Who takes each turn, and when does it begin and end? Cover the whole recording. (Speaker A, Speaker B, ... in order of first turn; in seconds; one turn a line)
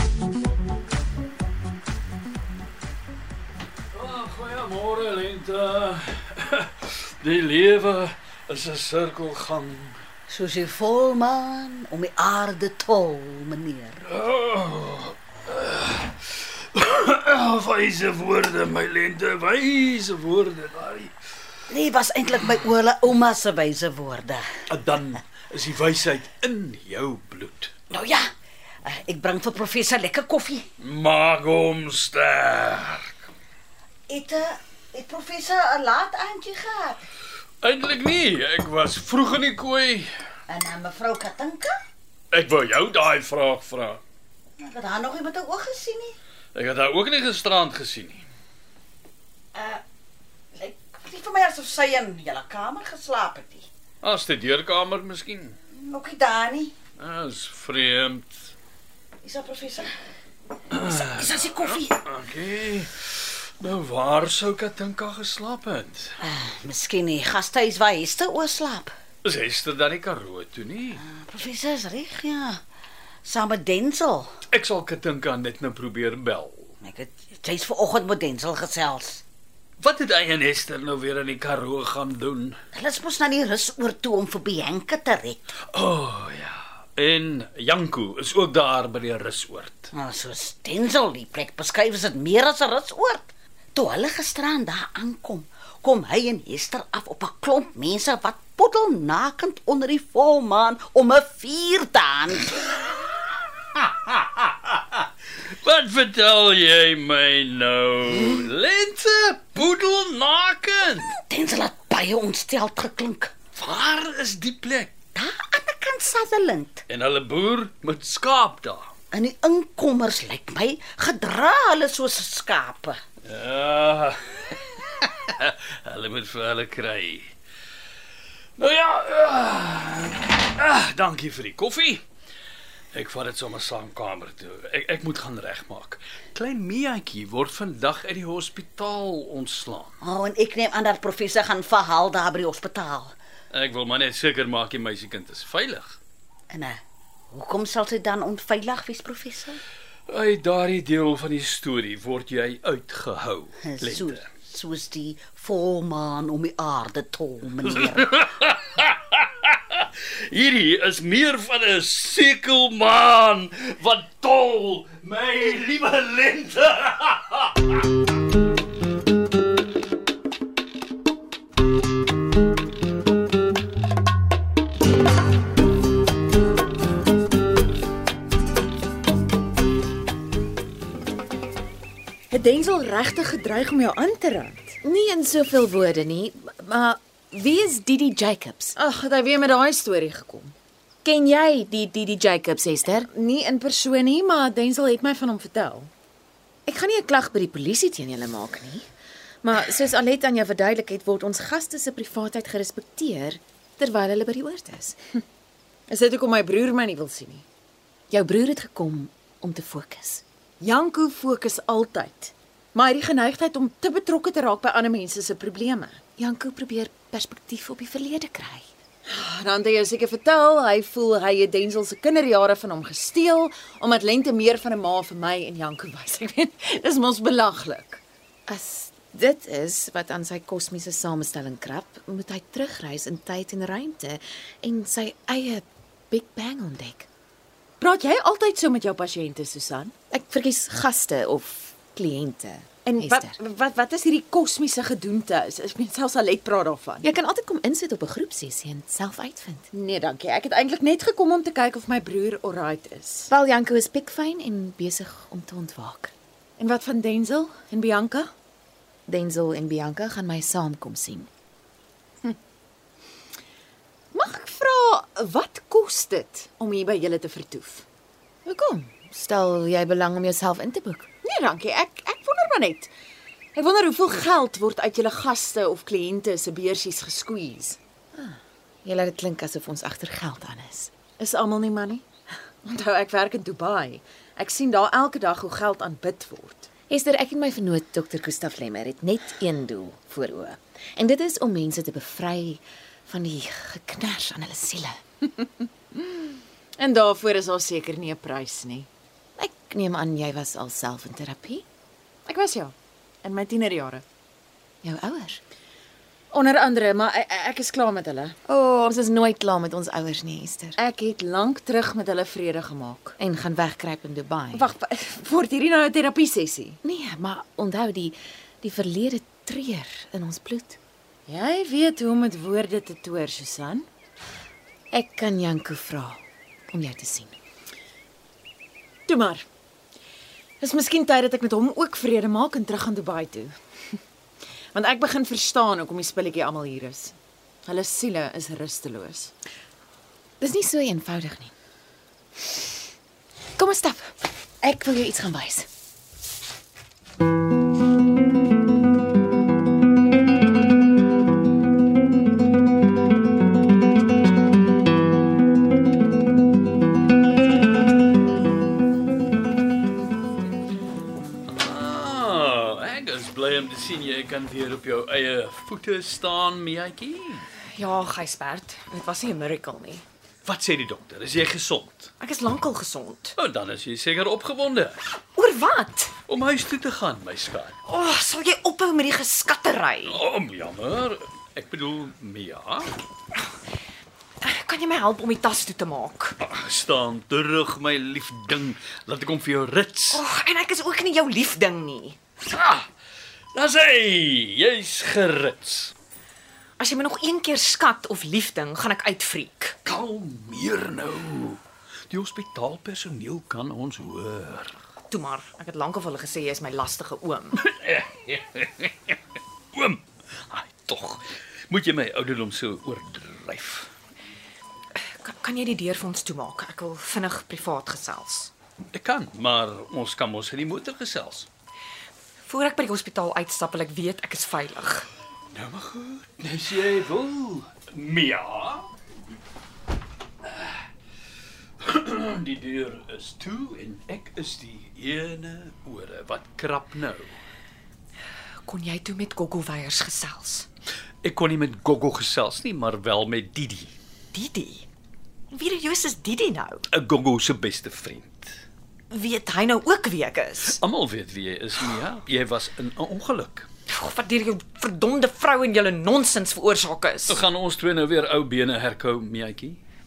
Speaker A: 3.9-10.0
Speaker B: 10.3-14.0
Speaker A: 14.1-21.1
Speaker B: 21.7-24.5
Speaker A: 24.7-27.7
Speaker B: 27.9-28.3
Speaker B: 28.8-30.6
Speaker A: 30.8-33.1
Speaker B: 34.1-37.0
Speaker A: 37.6-40.1
Speaker B: 40.5-41.7
Speaker A: 42.3-44.0
Speaker B: 44.6-46.1
Speaker A: 46.5-48.2
Speaker B: 49.5-49.8
Speaker B: 50.5-53.6
Speaker A: 54.0-55.5
Speaker B: 55.7-56.7
Speaker A: 57.0-58.3
Speaker B: 59.2-59.9
Speaker A: 60.7-66.2
Speaker B: 60.9-62.0
Speaker B: 66.2-68.9
Speaker A: 69.2-71.0
Speaker B: 71.0-72.6
Speaker B: 73.2-74.3
Speaker A: 74.5-76.7
Speaker B: 76.8-79.2
Speaker A: 79.8-82.6
Speaker B: 82.7-85.5
Speaker A: 85.7-89.9
Speaker B: 89.9-102.5
Speaker A: 103.8-104.4
Speaker A: 105.4-111.1
Speaker B: 111.3-113.3
Speaker A: 113.5-115.0
Speaker B: 115.1-116.8
Speaker A: 116.9-118.9
Speaker B: 119.1-123.0
Speaker A: 123.2-127.3
Speaker A: 128.6-132.0
Speaker A: 132.9-139.9
Speaker B: 140.0-143.1
Speaker A: 143.5-146.0
Speaker B: 146.5-146.8
Speaker B: 147.3-149.6
Speaker A: 150.1-154.3
Speaker B: 153.6-158.1
Speaker A: 157.7-167.8
Speaker C: 182.3-184.8
Speaker D: 184.8-188.7
Speaker C: 188.8-190.5
Speaker D: 191.0-193.1
Speaker C: 193.1-195.9
Speaker D: 196.7-198.8
Speaker D: 199.4-205.0
Speaker C: 205.9-207.4
Speaker D: 208.1-210.2
Speaker C: 210.6-216.0
Speaker D: 216.2-218.7
Speaker C: 219.1-228.0
Speaker D: 228.5-237.1
Speaker C: 237.8-239.9
Speaker D: 240.1-243.4
Speaker C: 242.8-247.1
Speaker D: 247.0-249.7
Speaker C: 249.7-253.3
Speaker D: 253.3-256.1
Speaker C: 256.6-258.3
Speaker D: 259.1-261.3
Speaker C: 264.1-267.8
Speaker D: 268.4-271.1
Speaker C: 271.2-272.9
Speaker C: 273.5-277.8
Speaker D: 278.1-280.9
Speaker C: 281.2-282.0
Speaker C: 282.6-286.7
Speaker D: 286.9-295.0
Speaker C: 296.8-298.9
Speaker D: 299.4-301.6
Speaker C: 302.2-304.0
Speaker D: 304.8-305.4
Speaker C: 306.3-308.4
Speaker D: 308.5-310.8
Speaker C: 310.8-313.1
Speaker D: 313.2-314.7
Speaker C: 314.5-316.8
Speaker D: 316.8-320.8
Speaker C: 321.3-323.9
Speaker D: 324.9-327.4
Speaker C: 329.1-329.4
Speaker C: 330.6-333.6
Speaker C: 334.7-339.3
Speaker D: 340.4-341.5
Speaker D: 343.6-345.7
Speaker A: 361.5-367.4
Speaker E: 367.7-370.0
Speaker A: 370.4-372.1
Speaker E: 372.2-373.4
Speaker A: 373.4-375.0
Speaker E: 375.3-376.1
Speaker A: 376.3-377.7
Speaker E: 377.8-380.2
Speaker A: 380.1-382.9
Speaker E: 384.4-386.4
Speaker A: 386.4-390.2
Speaker E: 390.1-392.2
Speaker A: 392.4-392.9
Speaker A: 393.5-395.9
Speaker E: 396.8-399.7
Speaker A: 399.8-404.8
Speaker E: 405.1-407.6
Speaker A: 407.6-409.1
Speaker A: 409.7-413.9
Speaker E: 415.0-418.5
Speaker A: 418.9-421.5
Speaker E: 422.4-425.1
Speaker A: 425.5-428.9
Speaker A: 430.4-430.7
Speaker A: 431.8-437.3
Speaker E: 438.6-440.6
Speaker A: 441.2-443.9
Speaker E: 444.3-444.9
Speaker E: 445.5-446.8
Speaker A: 446.9-448.5
Speaker E: 449.1-450.8
Speaker A: 450.7-453.7
Speaker E: 453.9-457.4
Speaker A: 457.3-459.8